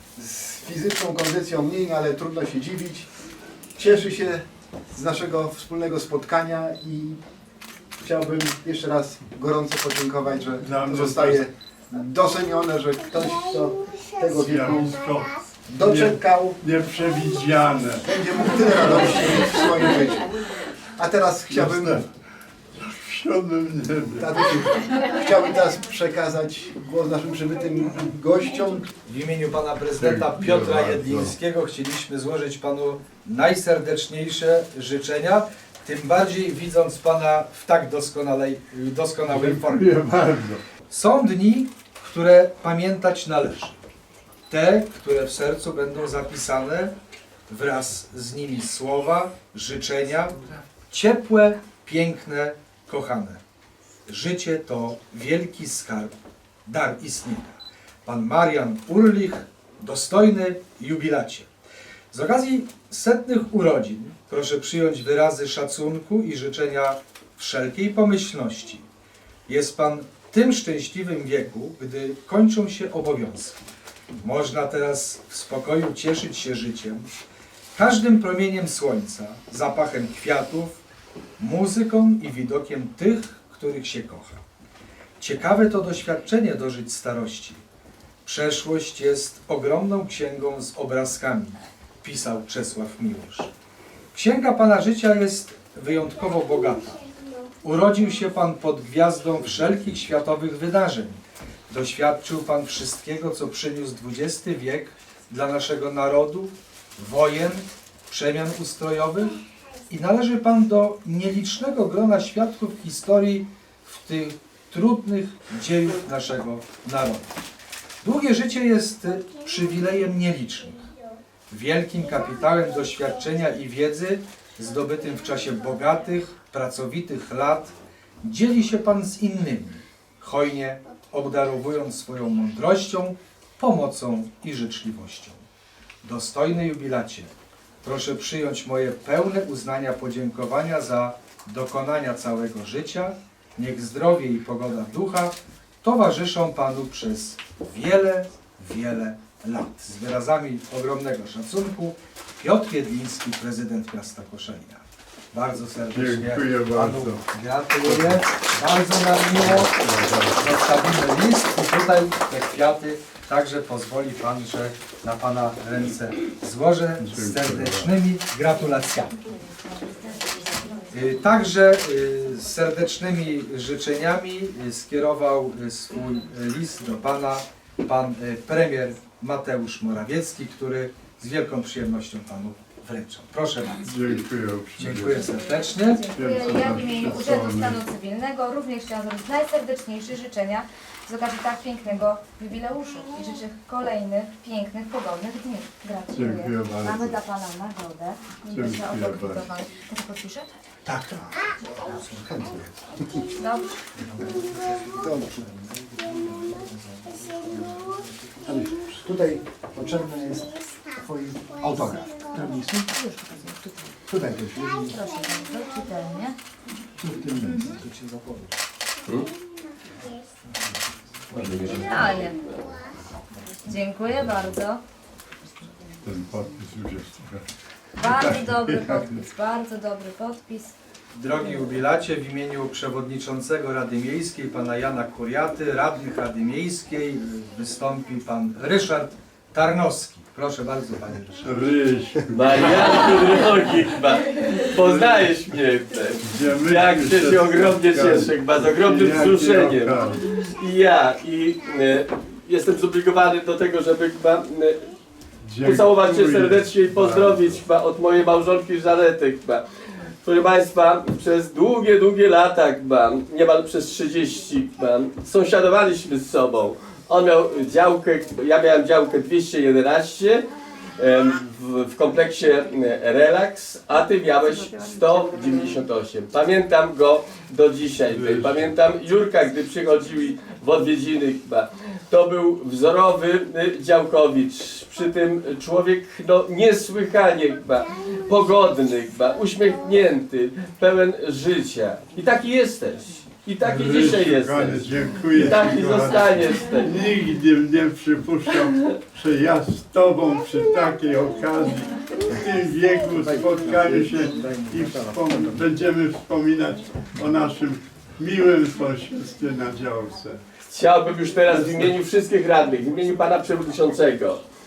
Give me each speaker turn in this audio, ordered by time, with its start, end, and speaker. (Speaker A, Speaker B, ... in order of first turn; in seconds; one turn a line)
Speaker A: 0.1-3.1
Speaker A: 3.7-7.2
Speaker A: 8.0-14.9
Speaker B: 10.6-11.5
Speaker B: 14.3-19.2
Speaker A: 15.7-16.6
Speaker A: 18.0-20.3
Speaker A: 21.0-22.0
Speaker B: 21.5-22.0
Speaker B: 22.8-24.4
Speaker A: 24.2-28.9
Speaker C: 29.0-40.0
Speaker B: 30.0-31.3
Speaker B: 39.3-40.6
Speaker C: 40.9-43.8
Speaker C: 44.5-46.9
Speaker C: 47.5-53.4
Speaker C: 54.1-61.5
Speaker C: 62.1-68.8
Speaker C: 69.5-73.6
Speaker C: 74.2-77.1
Speaker C: 77.8-80.8
Speaker C: 81.4-84.4
Speaker C: 85.2-87.6
Speaker C: 88.2-93.5
Speaker C: 94.1-97.0
Speaker C: 97.6-117.3
Speaker C: 118.0-120.8
Speaker C: 121.5-135.4
Speaker C: 136.0-137.3
Speaker C: 137.8-159.7
Speaker B: 155.9-157.2
Speaker B: 157.8-158.2
Speaker B: 159.4-160.5
Speaker C: 160.3-169.1
Speaker B: 167.0-167.9
Speaker D: 169.7-170.9
Speaker C: 170.9-183.9
Speaker B: 183.8-185.2
Speaker C: 184.8-186.1
Speaker D: 185.8-200.5
Speaker B: 186.1-187.8
Speaker B: 196.1-197.2
Speaker B: 198.4-199.5
Speaker C: 200.9-201.5
Speaker A: 201.9-202.6
Speaker D: 203.4-203.8
Speaker C: 204.4-204.8
Speaker A: 205.0-205.4
Speaker C: 206.2-206.6
Speaker C: 207.1-207.9
Speaker A: 208.5-212.8
Speaker D: 212.5-213.7
Speaker A: 214.1-214.8
Speaker D: 214.4-216.3
Speaker A: 217.0-218.4
Speaker D: 217.3-217.8
Speaker E: 221.3-222.7
Speaker D: 221.7-222.4
Speaker D: 223.6-224.8
Speaker B: 226.0-227.4
Speaker D: 228.0-230.7
Speaker B: 228.0-229.2
Speaker C: 231.1-241.4
Speaker B: 241.4-243.0
Speaker E: 242.3-254.9
Speaker B: 244.8-245.3
Speaker B: 246.2-250.2
Speaker B: 255.4-257.6
Speaker E: 255.6-259.6
Speaker E: 260.2-270.4
Speaker E: 271.0-296.9
Speaker B: 278.0-278.7
Speaker B: 293.6-310.4
Speaker C: 303.2-305.5
Speaker E: 310.7-314.4